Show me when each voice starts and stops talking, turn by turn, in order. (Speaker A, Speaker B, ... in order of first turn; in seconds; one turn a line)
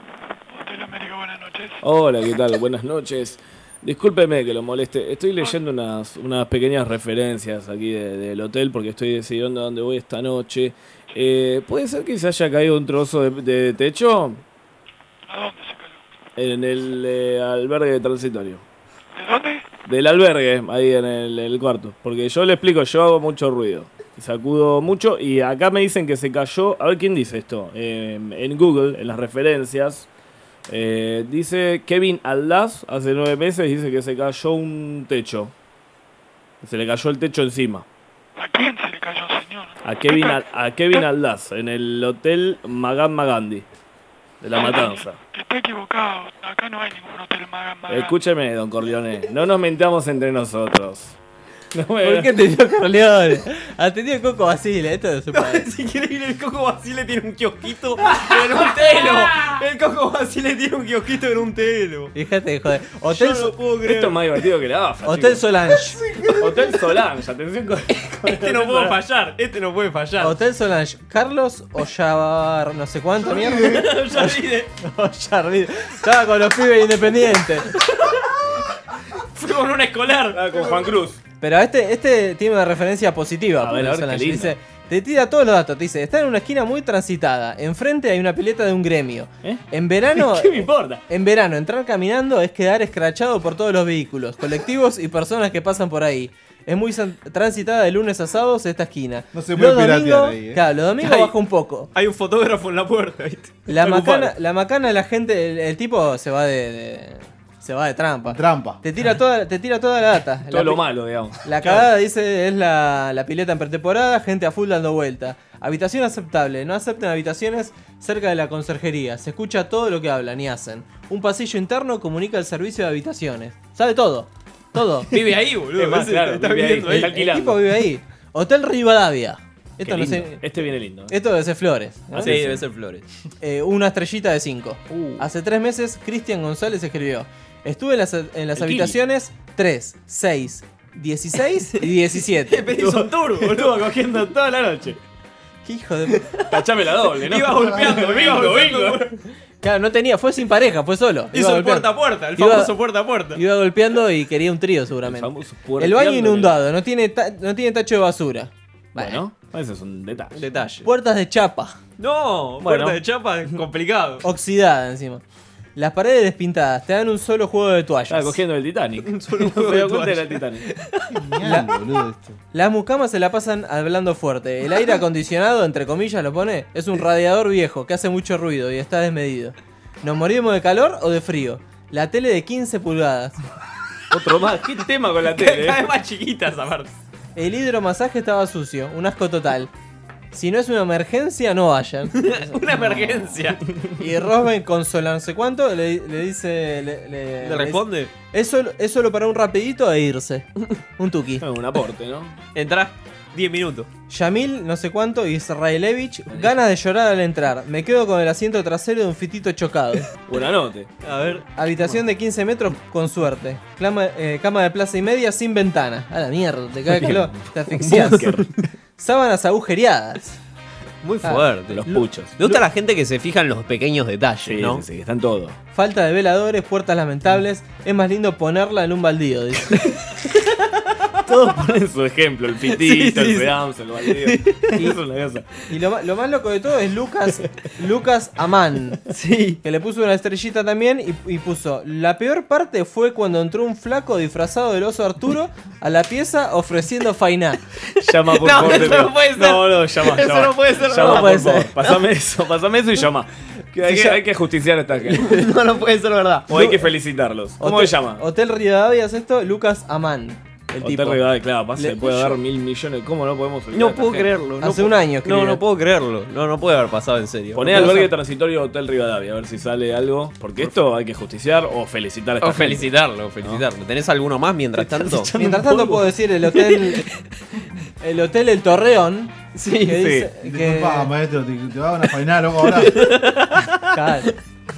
Speaker A: 0.6-1.8
Speaker B: 1.8-14.4
Speaker A: 15.3-16.0
Speaker B: 16.4-18.6
Speaker A: 19.2-19.6
Speaker B: 19.9-30.1
Speaker B: 30.7-35.5
Speaker B: 36.6-37.9
Speaker A: 38.4-41.1
Speaker B: 39.8-43.6
Speaker B: 44.4-45.2
Speaker A: 44.5-48.1
Speaker B: 47.9-51.2
Speaker B: 51.7-52.3
Speaker C: 52.0-55.6
Speaker D: 55.3-62.1
Speaker B: 58.1-59.4
Speaker C: 62.1-63.5
Speaker B: 63.2-65.5
Speaker D: 63.4-64.2
Speaker C: 65.0-66.0
Speaker B: 66.3-69.0
Speaker D: 68.2-70.3
Speaker C: 70.2-77.7
Speaker D: 73.5-74.7
Speaker D: 79.3-80.9
Speaker B: 80.3-81.2
Speaker C: 81.4-101.9
Speaker B: 83.6-84.5
Speaker B: 89.4-91.0
Speaker E: 99.3-100.6
Speaker D: 101.0-101.3
Speaker D: 101.9-103.6
Speaker C: 103.7-110.8
Speaker B: 103.7-104.3
Speaker E: 108.2-108.8
Speaker B: 110.5-111.8
Speaker C: 111.4-125.1
Speaker D: 125.1-127.2
Speaker B: 125.8-127.6
Speaker C: 126.9-130.4
Speaker B: 129.8-131.1
Speaker C: 131.1-132.4
Speaker B: 132.1-132.6
Speaker D: 132.2-133.1
Speaker C: 133.4-142.6
Speaker B: 134.9-135.3
Speaker B: 138.6-138.9
Speaker D: 142.5-143.8
Speaker B: 142.7-145.0
Speaker C: 145.7-146.2
Speaker B: 146.5-149.1
Speaker D: 147.2-149.0
Speaker C: 149.6-152.7
Speaker D: 151.3-153.4
Speaker C: 153.3-159.2
Speaker B: 155.0-156.6
Speaker B: 159.0-160.4
Speaker D: 160.3-160.9
Speaker C: 160.8-161.8
Speaker D: 162.0-164.2
Speaker B: 162.6-163.6
Speaker C: 164.2-165.2
Speaker C: 165.8-168.4
Speaker B: 168.1-170.7
Speaker D: 169.0-171.0
Speaker E: 171.1-172.4
Speaker C: 171.4-171.7
Speaker C: 172.5-183.4
Speaker B: 184.1-185.8
Speaker D: 185.2-186.9
Speaker C: 187.4-189.7
Speaker C: 190.3-193.2
Speaker D: 192.2-193.6
Speaker C: 194.0-200.5
Speaker D: 197.4-198.1
Speaker C: 201.0-201.4
Speaker B: 201.4-202.3
Speaker D: 202.6-203.9
Speaker C: 204.1-210.1
Speaker B: 210.2-210.9
Speaker D: 211.1-211.4
Speaker C: 211.6-218.3
Speaker B: 216.9-218.5
Speaker C: 219.0-220.4
Speaker D: 221.0-221.9
Speaker C: 221.2-222.0
Speaker B: 221.3-222.4
Speaker D: 222.4-224.8
Speaker B: 224.5-225.6
Speaker C: 225.8-229.8
Speaker B: 231.3-235.7
Speaker D: 232.7-233.5
Speaker D: 234.1-234.9
Speaker C: 235.7-239.0
Speaker D: 239.1-239.6
Speaker C: 239.6-247.6
Speaker B: 248.0-255.5
Speaker D: 248.3-252.0
Speaker C: 251.0-251.7
Speaker D: 253.9-254.2
Speaker D: 255.1-256.8
Speaker B: 256.5-258.2
Speaker C: 257.6-261.2
Speaker B: 260.8-264.3
Speaker C: 261.8-262.4
Speaker D: 263.7-268.1
Speaker C: 264.6-265.6
Speaker B: 267.5-272.9
Speaker C: 267.7-268.1
Speaker D: 272.4-275.3
Speaker B: 274.8-276.1
Speaker C: 275.4-277.0
Speaker D: 276.7-277.0
Speaker C: 278.0-281.1
Speaker D: 279.6-280.0
Speaker B: 280.0-280.2
Speaker E: 280.4-283.0
Speaker D: 282.7-284.3
Speaker C: 283.9-284.3